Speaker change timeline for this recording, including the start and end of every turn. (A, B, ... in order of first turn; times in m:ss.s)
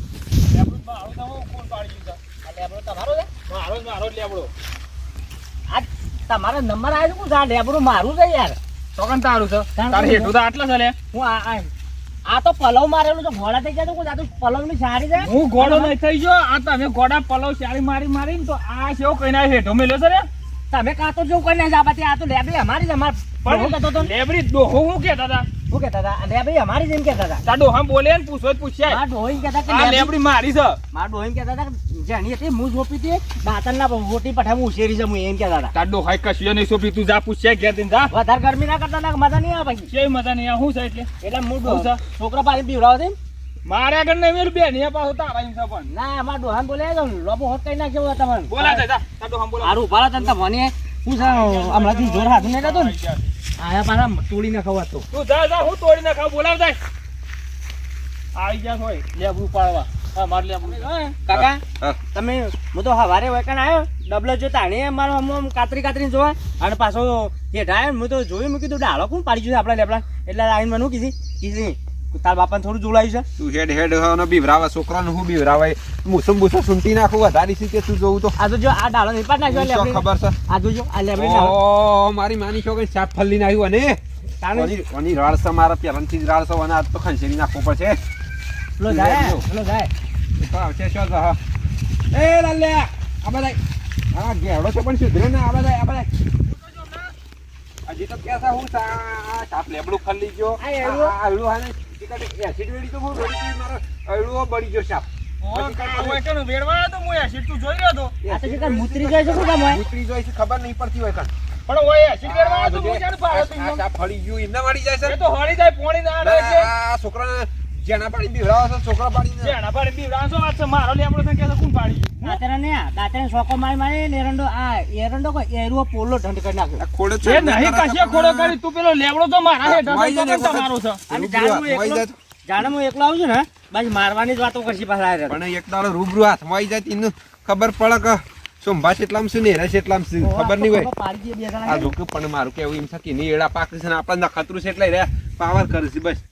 0:00.5-0:02.2 A
0:02.4-0:03.3 B
0:03.5-0:04.5 A
0:05.7-0:08.6 B
0:09.0-0:11.0 A
0:09.8-0:10.4 B
0:11.1-0:11.7 B
0:12.3-0:15.9 B
0:15.2-0:20.3 A
0:20.7-0:24.1 B
0:23.4-0:25.5 A
0:25.7-0:27.4 B
0:27.4-0:29.0 A
0:28.8-0:30.1 B
0:29.6-0:30.8 A
0:30.9-0:35.7 B
0:35.7-0:38.1 A
0:38.1-0:39.9 B
0:39.9-0:41.1 A
0:41.2-0:43.2 B
0:41.6-0:42.0 A
0:43.6-0:45.9 A
0:45.9-0:48.8 B
0:48.5-0:49.8 A
0:49.6-0:52.9 B
0:51.2-0:53.3 A
0:53.6-0:55.1 B
0:55.1-0:56.8 A
0:58.3-1:01.1 A
1:01.0-1:13.3 B
1:01.3-1:02.0 C
1:13.4-1:18.4 C
1:18.4-1:21.6 B
1:19.5-1:20.4 C
1:21.2-1:24.0 C
1:24.4-1:24.7 B
1:24.5-1:28.0 C
1:28.8-1:29.9 B
1:28.9-1:29.4 C
1:30.4-1:31.4 C
1:32.1-1:33.6 C
1:34.1-1:36.1 C
1:36.6-1:37.1 A
1:37.9-1:46.2 C
1:40.6-1:41.2 B
1:45.4-1:48.2 A
1:48.2-1:51.3 C
1:48.3-1:49.8 B
1:51.7-1:53.8 A
1:52.2-1:55.2 C
1:55.0-1:56.7 A
1:56.2-1:59.6 C
1:59.4-2:02.4 A
2:02.2-2:06.8 B
2:06.8-2:08.6 C
2:07.2-2:11.0 A
2:09.6-2:12.2 C
2:11.1-2:15.4 B
2:15.3-2:20.9 C
2:20.2-2:21.9 B
2:21.6-2:26.2 C